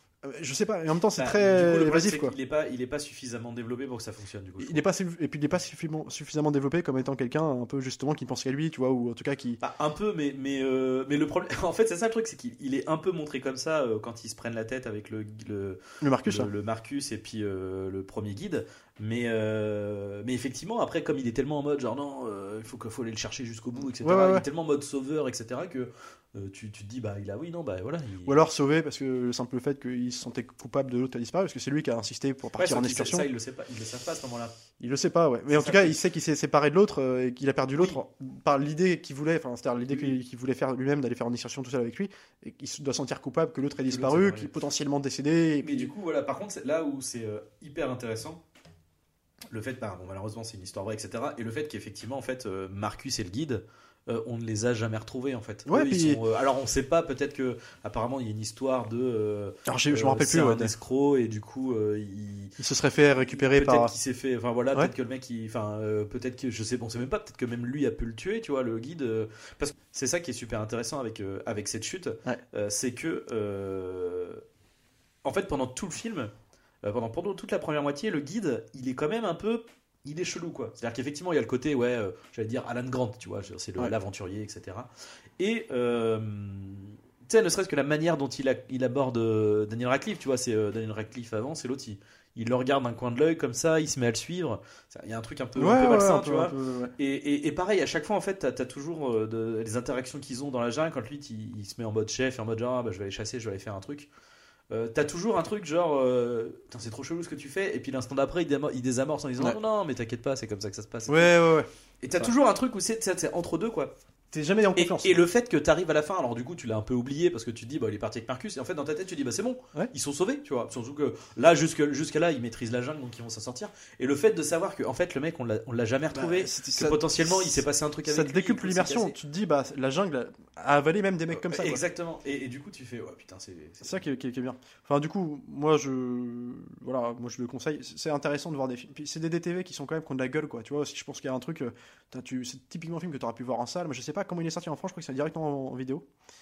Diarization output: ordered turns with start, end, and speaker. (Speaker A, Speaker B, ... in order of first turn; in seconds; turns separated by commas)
Speaker A: 0.2-2.3, Speaker B: 1.1-4.8, Speaker A: 4.6-9.6, Speaker B: 9.6-28.4, Speaker A: 16.0-16.5, Speaker A: 24.0-24.4, Speaker A: 28.2-33.3, Speaker B: 32.5-34.5, Speaker A: 34.8-45.9, Speaker B: 35.5-36.0, Speaker B: 39.9-40.1, Speaker B: 43.9-44.5, Speaker B: 45.6-48.4, Speaker B: 49.5-62.5, Speaker A: 55.6-56.2, Speaker A: 59.6-60.7, Speaker A: 62.6-63.9, Speaker B: 63.3-74.4, Speaker B: 75.2-76.3, Speaker B: 76.8-104.1, Speaker A: 95.6-96.9, Speaker B: 104.7-111.3, Speaker A: 111.1-112.3, Speaker B: 112.0-113.9, Speaker A: 114.3-115.2, Speaker B: 114.8-129.2, Speaker A: 126.1-131.8, Speaker B: 131.3-134.0, Speaker A: 133.8-146.1